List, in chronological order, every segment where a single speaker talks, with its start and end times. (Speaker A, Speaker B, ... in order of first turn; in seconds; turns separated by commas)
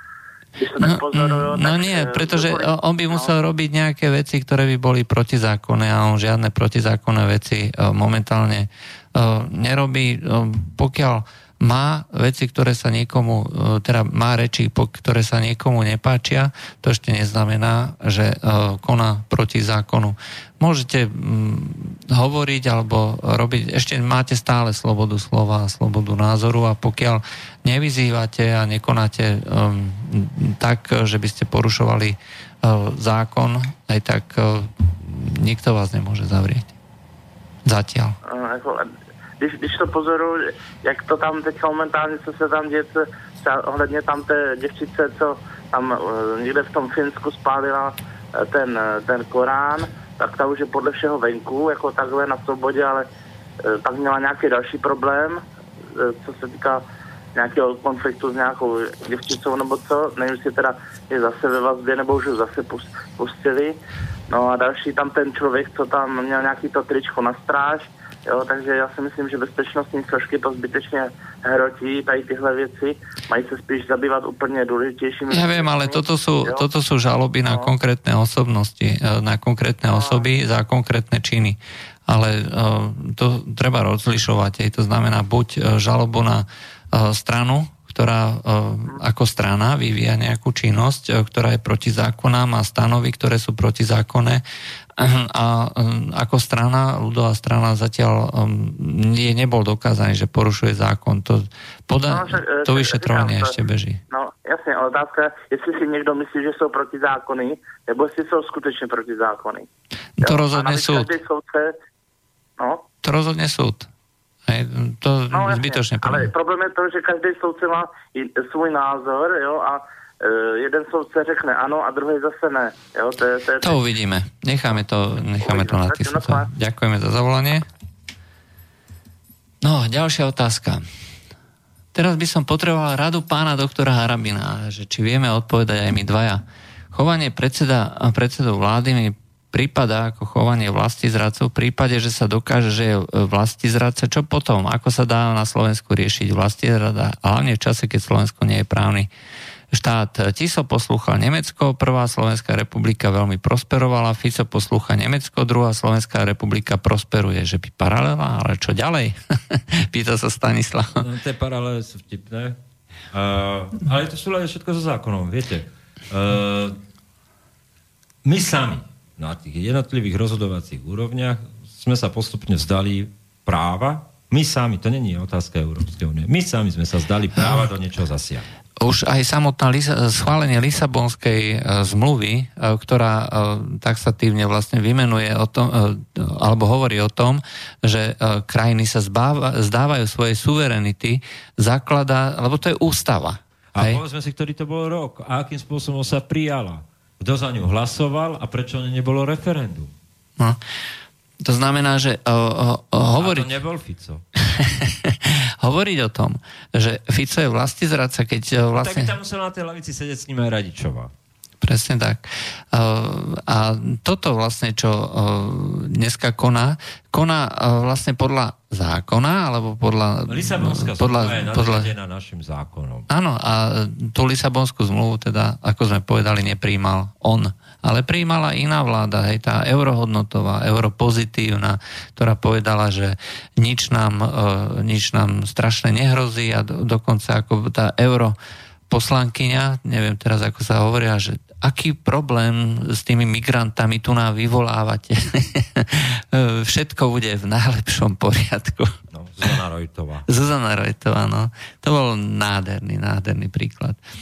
Speaker A: 0.6-3.3, Speaker B: 0.8-36.7, Speaker B: 37.7-38.2, Speaker A: 38.3-53.1, Speaker A: 53.6-55.4, Speaker A: 55.9-56.8, Speaker A: 57.4-63.8, Speaker A: 64.3-76.6, Speaker B: 75.3-94.4, Speaker A: 79.9-80.2, Speaker B: 95.0-104.0, Speaker A: 102.1-103.5, Speaker A: 104.1-109.7, Speaker B: 110.2-111.1, Speaker A: 110.2-111.7, Speaker A: 112.6-112.8, Speaker B: 113.0-113.9, Speaker B: 114.5-116.3, Speaker A: 115.3-123.8, Speaker B: 123.6-127.7, Speaker A: 125.4-126.5, Speaker B: 129.6-130.8, Speaker B: 131.9-149.1, Speaker B: 149.7-161.0, Speaker C: 161.0-162.6, Speaker C: 163.1-166.8, Speaker C: 168.2-178.5, Speaker B: 178.8-194.0, Speaker C: 193.7-199.9, Speaker B: 201.4-203.6, Speaker C: 203.2-204.2, Speaker B: 204.5-209.1, Speaker C: 208.8-211.1, Speaker B: 211.6-221.9, Speaker C: 220.3-223.1, Speaker B: 223.1-238.4, Speaker B: 238.9-249.0, Speaker C: 249.1-250.3, Speaker B: 250.3-254.0